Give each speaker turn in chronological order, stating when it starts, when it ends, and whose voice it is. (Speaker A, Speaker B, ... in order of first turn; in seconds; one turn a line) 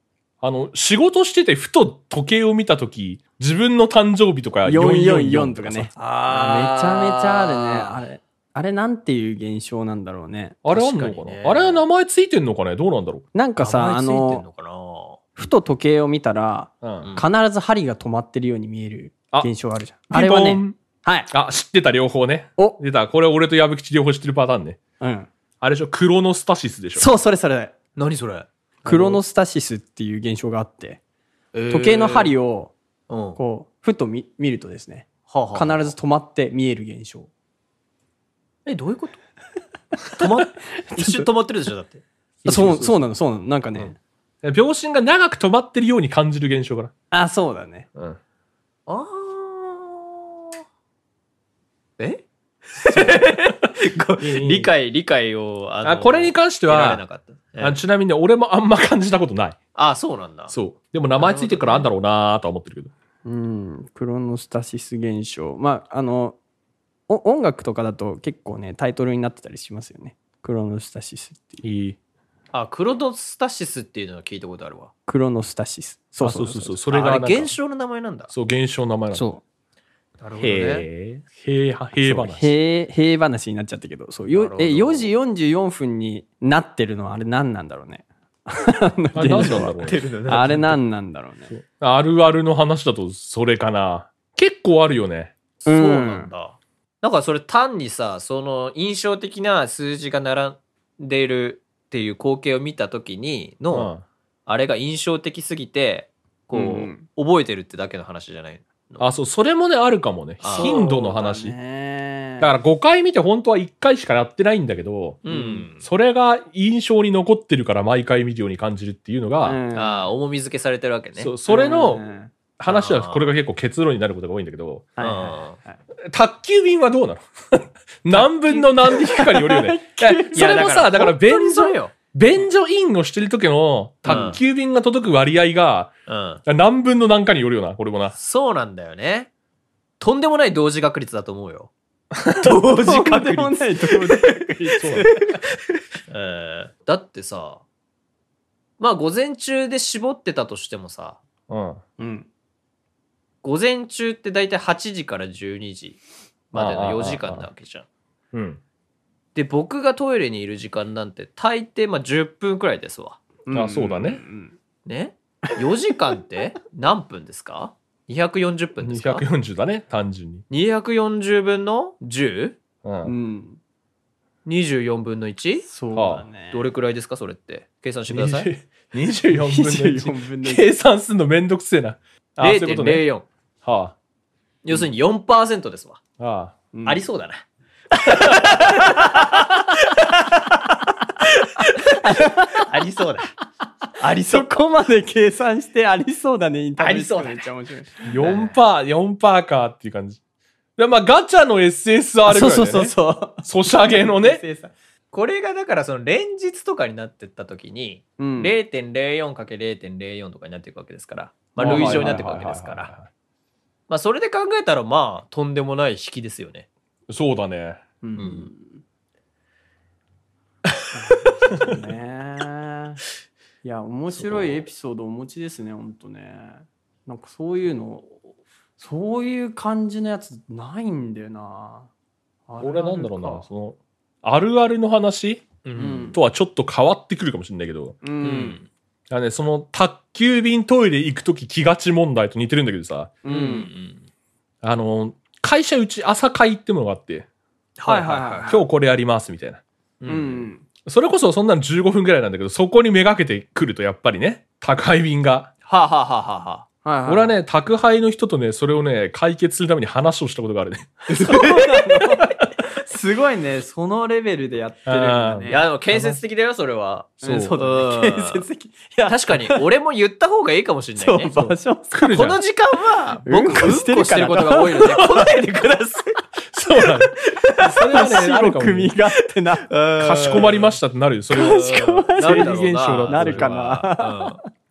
Speaker A: 0.4-5.9
Speaker B: 4.6-10.6
Speaker C: 5.9-8.1
Speaker A: 10.6-13.2
Speaker C: 10.7-11.8
Speaker B: 13.3-14.4
Speaker C: 13.6-15.2
Speaker B: 15.4-21.3
Speaker A: 16.8-17.1
Speaker C: 17.0-17.3
Speaker A: 20.1-20.8
Speaker A: 21.3-24.8
Speaker B: 25.0-25.3
Speaker A: 25.6-27.0
Speaker B: 26.9-27.7
Speaker C: 27.9-29.1
Speaker B: 28.8-31.0
Speaker A: 28.9-29.2
Speaker C: 31.5-32.3
Speaker B: 31.7-32.7
Speaker C: 33.1-33.4
Speaker B: 33.4-37.3
Speaker C: 35.3-35.8
Speaker C: 38.6-39.2
Speaker C: 40.1-42.0
Speaker B: 40.9-41.2
Speaker A: 42.4-43.0
Speaker B: 42.4-44.0
Speaker A: 44.4-46.9
Speaker B: 47.1-47.9
Speaker C: 48.9-50.6
Speaker C: 52.0-57.8
Speaker A: 52.8-53.4
Speaker A: 54.2-54.7
Speaker A: 55.8-57.0
Speaker A: 57.6-59.6
Speaker C: 59.7-60.5
Speaker A: 60.5-62.9
Speaker C: 61.2-61.9
Speaker B: 63.2-66.4
Speaker B: 67.1-71.6
Speaker A: 71.6-72.0
Speaker C: 72.5-74.9
Speaker B: 75.1-76.8
Speaker A: 76.2-77.5
Speaker C: 76.9-78.3
Speaker A: 78.3-79.3
Speaker B: 79.1-79.4
Speaker C: 80.2-80.8
Speaker A: 80.4-82.5
Speaker B: 82.0-91.5
Speaker C: 84.3-85.1
Speaker A: 89.1-90.0
Speaker C: 89.4-90.8
Speaker A: 91.5-95.3
Speaker C: 95.6-103.9
Speaker B: 95.7-96.3
Speaker A: 103.7-104.0
Speaker C: 104.5-109.1
Speaker B: 106.5-107.0
Speaker A: 109.0-111.5
Speaker C: 110.4-110.8
Speaker B: 110.5-112.5
Speaker A: 112.4-115.2
Speaker C: 115.2-115.8
Speaker B: 115.3-115.7
Speaker A: 115.8-119.6
Speaker B: 119.4-120.0
Speaker C: 119.7-121.3
Speaker A: 121.2-122.0
Speaker B: 121.5-122.3
Speaker A: 122.6-124.9
Speaker C: 122.7-123.2
Speaker B: 125.0-125.8
Speaker C: 125.0-125.6
Speaker A: 126.1-135.9
Speaker B: 128.5-130.6
Speaker C: 130.3-131.9
Speaker B: 134.1-134.4
Speaker C: 134.1-134.4
Speaker C: 136.1-136.4
Speaker A: 136.4-138.2
Speaker C: 138.1-139.3
Speaker C: 140.0-141.7
Speaker A: 142.2-142.5
Speaker C: 142.3-145.3
Speaker B: 142.7-145.1
Speaker A: 144.8-145.1
Speaker C: 146.1-147.6
Speaker C: 148.8-151.2
Speaker A: 151.5-151.8
Speaker B: 152.0-152.3
Speaker C: 153.4-156.0
Speaker C: 156.5-157.8
Speaker A: 156.5-157.4
Speaker A: 158.3-158.6
Speaker C: 159.3-163.2
Speaker B: 163.5-164.5
Speaker A: 163.5-164.2
Speaker C: 164.8-169.2
Speaker A: 168.8-170.4
Speaker C: 170.5-172.6
Speaker A: 172.8-173.1
Speaker B: 173.0-173.6
Speaker C: 174.4-175.7
Speaker B: 175.7-176.6
Speaker A: 175.9-176.3
Speaker C: 176.4-178.5
Speaker A: 178.1-183.1
Speaker B: 179.3-180.7
Speaker C: 182.4-183.3
Speaker A: 183.6-183.9
Speaker C: 184.6-186.0
Speaker A: 186.2-186.7
Speaker B: 186.7-187.0
Speaker C: 186.8-187.4
Speaker C: 188.0-190.2
Speaker B: 188.2-188.8
Speaker B: 191.6-192.6
Speaker C: 191.8-193.3
Speaker C: 194.0-194.6
Speaker B: 194.2-198.2
Speaker C: 196.8-197.5
Speaker A: 198.0-200.2
Speaker C: 198.2-198.6
Speaker A: 200.8-204.4
Speaker B: 202.2-204.7
Speaker C: 205.1-212.9
Speaker B: 208.2-208.5
Speaker B: 211.6-212.3
Speaker A: 211.6-213.1
Speaker C: 213.9-216.7
Speaker A: 217.1-217.8
Speaker B: 218.0-218.8
Speaker C: 218.2-218.5
Speaker B: 220.9-223.0
Speaker B: 223.6-228.1
Speaker B: 228.8-231.9
Speaker B: 232.5-233.4
Speaker A: 232.6-235.6
Speaker C: 235.6-236.1
Speaker B: 235.8-236.2
Speaker A: 236.1-238.0
Speaker B: 238.0-238.6
Speaker C: 238.2-238.7
Speaker A: 239.1-243.1
Speaker B: 243.2-243.7
Speaker C: 243.2-244.1
Speaker A: 244.6-247.3
Speaker C: 247.8-248.6
Speaker B: 247.8-248.6
Speaker A: 248.5-249.6
Speaker C: 250.0-250.5
Speaker B: 250.1-250.7
Speaker A: 250.8-255.5
Speaker C: 255.7-256.6
Speaker B: 256.8-257.4
Speaker A: 257.1-261.5
Speaker C: 261.1-262.4
Speaker B: 261.1-265.7
Speaker A: 264.9-266.2
Speaker C: 265.5-268.4
Speaker A: 267.2-267.5
Speaker B: 267.2-269.6
Speaker C: 269.0-271.3
Speaker B: 270.9-272.0
Speaker A: 271.3-272.4
Speaker C: 272.1-276.2
Speaker B: 273.2-275.0
Speaker A: 274.8-275.3
Speaker A: 276.5-278.9
Speaker C: 277.1-278.0
Speaker B: 277.7-279.7
Speaker C: 279.7-280.8
Speaker A: 280.0-283.6
Speaker B: 281.3-284.4
Speaker C: 281.7-284.4